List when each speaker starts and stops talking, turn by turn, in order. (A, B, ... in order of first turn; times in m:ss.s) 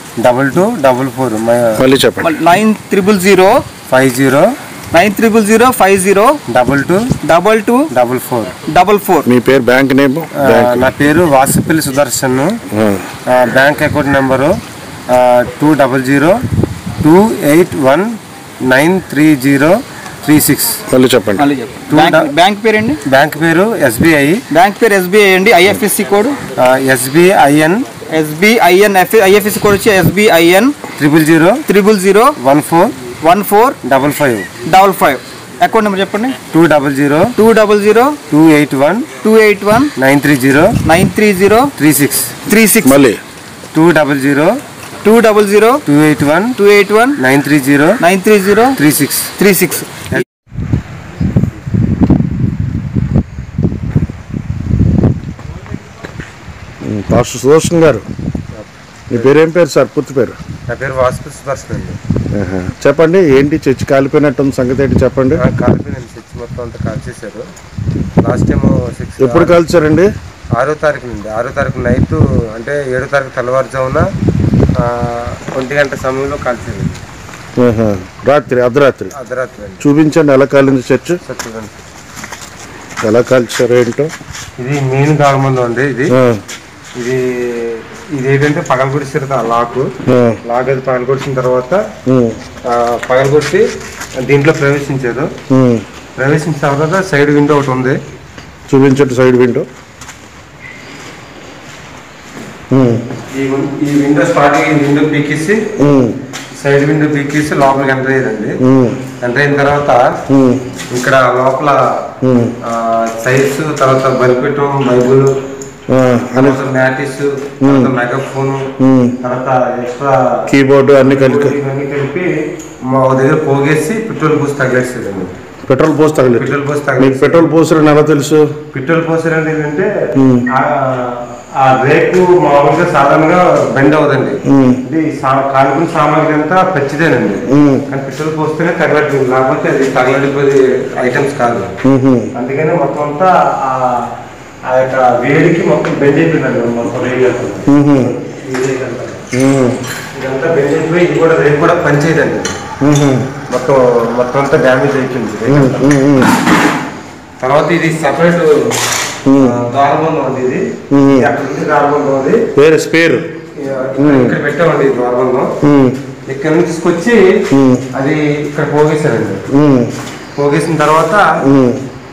0:00.2-0:01.8 A
0:01.8-0:02.3 B
0:02.2-0:03.6 C
0:03.9-0:04.5 A
0:04.9-0:06.4 C
0:06.5-0:07.1 A
0:07.2-0:07.9 C
0:07.9-0:08.6 A
0:08.7-0:09.3 C
0:09.2-0:10.9 B
0:10.3-0:12.6 A
0:12.7-0:13.1 B
0:13.2-0:16.4 A
0:17.0-0:20.8 A
0:20.9-0:21.5 B
0:21.4-0:23.0 C
0:21.9-0:22.3 A
0:23.1-0:24.4 A
0:24.5-0:26.4 C
0:26.6-0:27.9 A
0:28.1-0:30.8 C
0:31.0-0:31.6 A
0:31.6-0:32.3 C
0:32.4-0:32.9 A
0:33.2-0:33.8 C
0:33.8-0:34.5 A
0:34.6-0:36.4 C
0:36.5-0:37.3 A
0:37.4-0:38.2 C
0:38.3-0:39.1 A
0:39.2-0:39.9 C
0:40.0-0:40.8 A
0:40.8-0:41.7 C
0:41.8-0:42.4 A
0:42.4-0:43.0 C
0:42.8-0:43.2 B
0:43.7-0:44.6 A
0:45.0-0:45.8 C
0:45.9-0:46.6 A
0:46.6-0:47.2 C
0:47.2-0:48.0 A
0:48.0-0:48.8 C
0:48.8-0:49.3 A
0:49.3-0:50.1 C
0:56.8-0:58.1 B
0:58.5-0:59.3 A
0:59.1-1:00.4 B
1:00.7-1:02.0 A
1:02.3-1:05.4 B
1:05.3-1:07.5 A
1:08.2-1:09.6 A
1:09.2-1:10.1 B
1:10.6-1:14.1 A
1:14.8-1:17.0 A
1:17.6-1:19.1 B
1:19.1-1:19.8 A
1:19.8-1:21.2 B
1:21.3-1:21.8 A
1:23.0-1:24.1 B
1:24.6-1:26.2 A
1:26.1-1:26.4 B
1:27.0-1:29.9 A
1:30.1-1:30.4 B
1:30.4-1:31.8 A
1:32.1-1:32.4 B
1:32.6-1:33.6 A
1:34.2-1:35.3 A
1:35.5-1:35.8 B
1:36.2-1:38.0 A
1:38.7-1:39.7 B
1:42.7-1:43.0 B
1:43.3-1:45.7 A
1:45.8-1:46.2 B
1:46.6-1:48.6 A
1:48.6-1:49.0 B
1:49.2-1:50.1 A
1:50.3-1:50.6 B
1:50.9-1:52.1 A
1:52.2-1:52.5 B
1:52.6-1:55.3 A
1:55.9-1:56.6 B
1:56.4-1:58.7 A
1:57.6-1:57.9 B
1:58.8-1:59.2 B
1:59.2-2:00.5 A
2:00.5-2:01.6 B
2:01.2-2:02.3 A
2:02.8-2:05.3 A
2:05.7-2:08.5 B
2:06.4-2:07.5 A
2:08.7-2:09.9 A
2:10.2-2:10.5 B
2:10.5-2:21.7 A
2:14.4-2:14.8 B
2:17.5-2:17.8 B
2:21.8-2:22.3 B
2:22.3-2:24.1 A
2:24.7-2:29.2 A
2:27.7-2:28.1 B
2:29.3-2:29.8 B
2:30.1-2:32.6 A
2:32.8-2:33.3 B
2:33.5-2:35.9 A
2:35.5-2:36.3 B
2:37.4-2:38.7 A
2:39.2-2:39.6 B
2:39.3-2:42.4 A
2:40.9-2:41.3 B
2:42.6-2:43.2 B
2:43.6-2:45.5 A
2:44.0-2:44.4 B
2:45.6-2:46.0 B
2:46.3-2:47.3 A
2:47.5-2:47.8 B
2:47.9-2:49.4 A
2:49.5-2:49.9 B
2:50.4-2:51.3 A
2:51.4-2:51.8 B